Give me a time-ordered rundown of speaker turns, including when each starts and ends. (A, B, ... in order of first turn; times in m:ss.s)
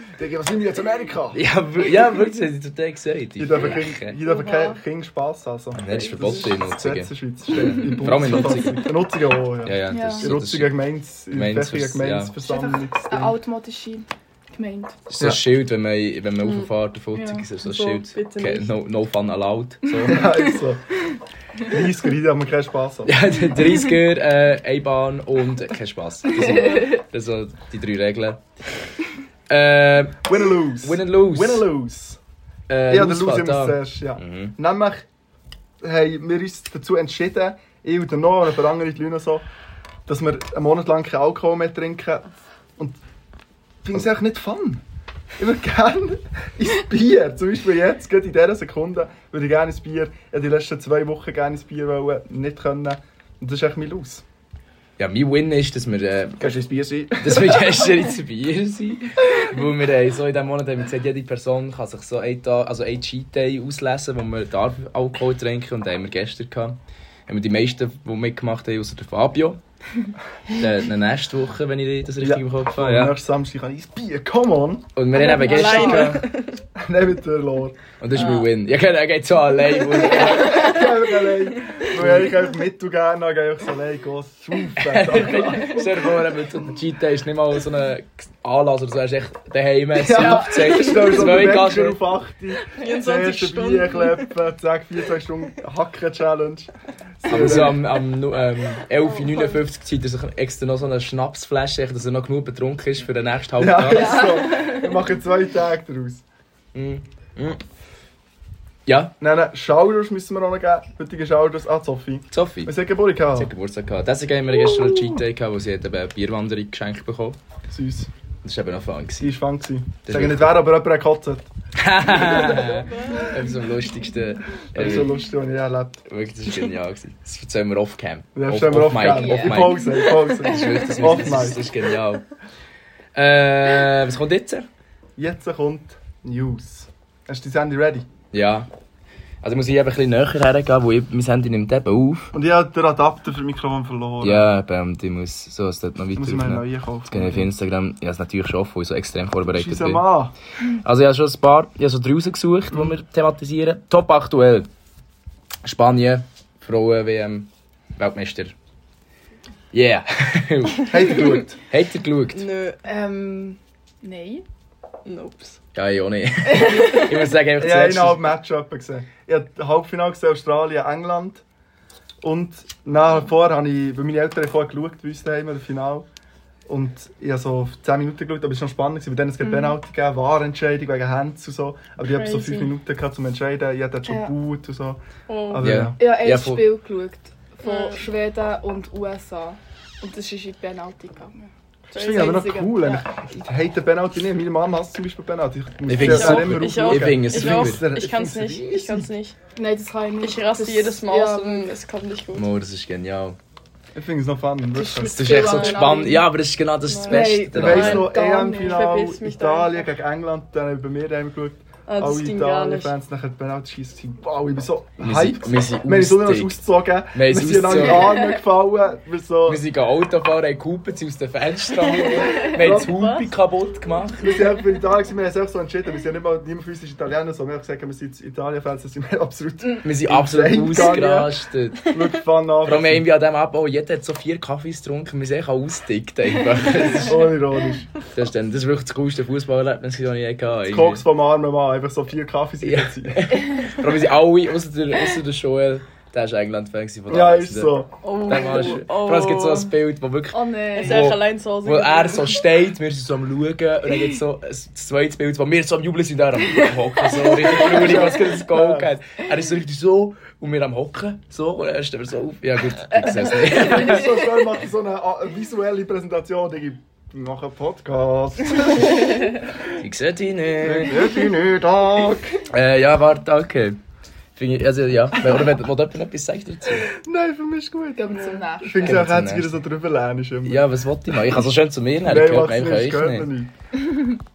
0:00.1-0:01.4 A
0:01.3-0:04.2 B
0:03.4-0:13.4 A
0:04.2-0:04.8 C
0:05.8-0:09.0 B
0:09.6-0:10.8 B
0:09.9-0:10.3 D
0:11.3-0:12.4 B
0:12.4-0:15.0 D
0:15.1-0:20.2 B
0:17.1-0:17.4 D
0:17.6-0:18.7 C
0:20.1-0:20.9 A
0:21.7-0:23.2 A
0:23.1-0:28.4 B
0:26.3-0:27.0 D
0:29.5-0:31.7 B
0:30.2-0:32.2 A
0:32.7-0:34.5 B
0:32.9-0:35.0 A
0:35.8-0:39.4 A
0:40.1-0:43.0 A
0:43.8-0:44.8 A
0:45.4-0:54.2 A
0:55.0-0:56.6 B
0:56.4-0:57.9 A
0:57.2-1:09.6 B
1:10.5-1:13.2 B
1:12.2-1:16.2 A
1:15.0-1:16.2 B
1:15.2-1:16.0 D
1:15.2-1:16.6 C
1:16.8-1:17.9 A
1:18.0-1:20.7 B
1:20.0-1:26.1 A
1:21.9-1:22.3 B
1:24.8-1:32.1 B
1:29.9-1:37.9 A
1:30.2-1:31.5 C
1:32.7-1:34.3 C
1:37.3-1:44.4 B
1:39.0-1:39.6 C
1:43.6-1:46.2 A
1:43.9-1:45.0 D
1:46.7-1:47.6 B
1:48.9-1:49.1 B
1:49.2-1:53.5 A
1:52.3-1:52.7 B
1:53.4-1:57.4 B
1:57.7-1:58.1 A
1:58.4-1:59.3 B
1:59.2-2:01.5 A
2:00.1-2:00.6 B
2:01.8-2:05.1 B
2:02.0-2:02.9 A
2:04.7-2:06.0 A
2:06.1-2:12.2 B
2:08.3-2:11.7 A
2:09.1-2:09.9 D
2:13.1-2:14.7 B
2:15.2-2:18.1 A
2:18.3-2:18.7 B
2:19.4-2:22.3 B
2:22.3-2:24.6 A
2:24.2-2:30.0 B
2:26.1-2:27.5 A
2:29.5-2:30.3 A
2:30.8-2:34.7 B
2:35.6-2:38.6 B
2:39.7-2:42.4 B
2:40.9-2:41.6 A
2:42.3-2:42.8 C
2:42.8-2:44.4 D
2:45.0-2:45.6 C
2:45.7-2:48.3 B
2:46.5-2:47.1 D
2:47.6-2:51.4 A
2:52.2-2:56.1 A
2:56.7-3:06.0 A
2:59.4-2:59.8 D
3:02.1-3:02.7 C
3:04.1-3:04.3 D
3:05.3-3:05.7 C
3:05.6-3:06.7 B
3:06.0-3:13.4 D
3:07.6-3:08.0 C
3:11.9-3:12.4 C
3:11.9-3:19.1 A
3:15.9-3:17.8 B
3:16.0-3:19.4 C
3:19.6-3:21.8 D
3:20.2-3:22.5 C
3:22.3-3:23.4 B
3:23.9-3:25.4 A
3:24.8-3:26.2 D
3:25.1-3:28.1 B
3:25.4-3:26.0 C
3:26.9-3:29.8 C
3:27.1-3:28.9 D
3:27.5-3:39.6 A
3:31.9-3:32.9 C
3:35.0-3:36.6 B
3:37.1-3:38.2 B
3:37.8-3:38.4 D
3:39.4-3:44.5 B
3:42.1-3:43.2 C
3:42.4-3:43.2 A
3:44.2-3:53.0 A
3:49.8-3:51.9 B
3:52.6-3:57.2 B
3:57.0-3:57.9 A
3:58.1-4:01.0 B
4:00.7-4:03.3 A
4:02.6-4:24.2 B
4:07.1-4:07.9 A
4:08.0-4:09.7 C
4:10.3-4:11.1 D
4:10.7-4:12.4 C
4:17.4-4:17.8 D
4:17.6-4:18.9 A
4:23.6-4:24.0 D
4:23.6-4:29.2 A
4:29.8-4:31.0 B
4:30.6-4:32.4 A
4:32.5-4:33.8 B
4:34.4-4:36.9 B
4:36.9-4:40.7 A
4:37.9-4:39.0 D
4:38.8-4:39.5 B
4:40.4-4:43.3 B
4:42.0-4:43.5 A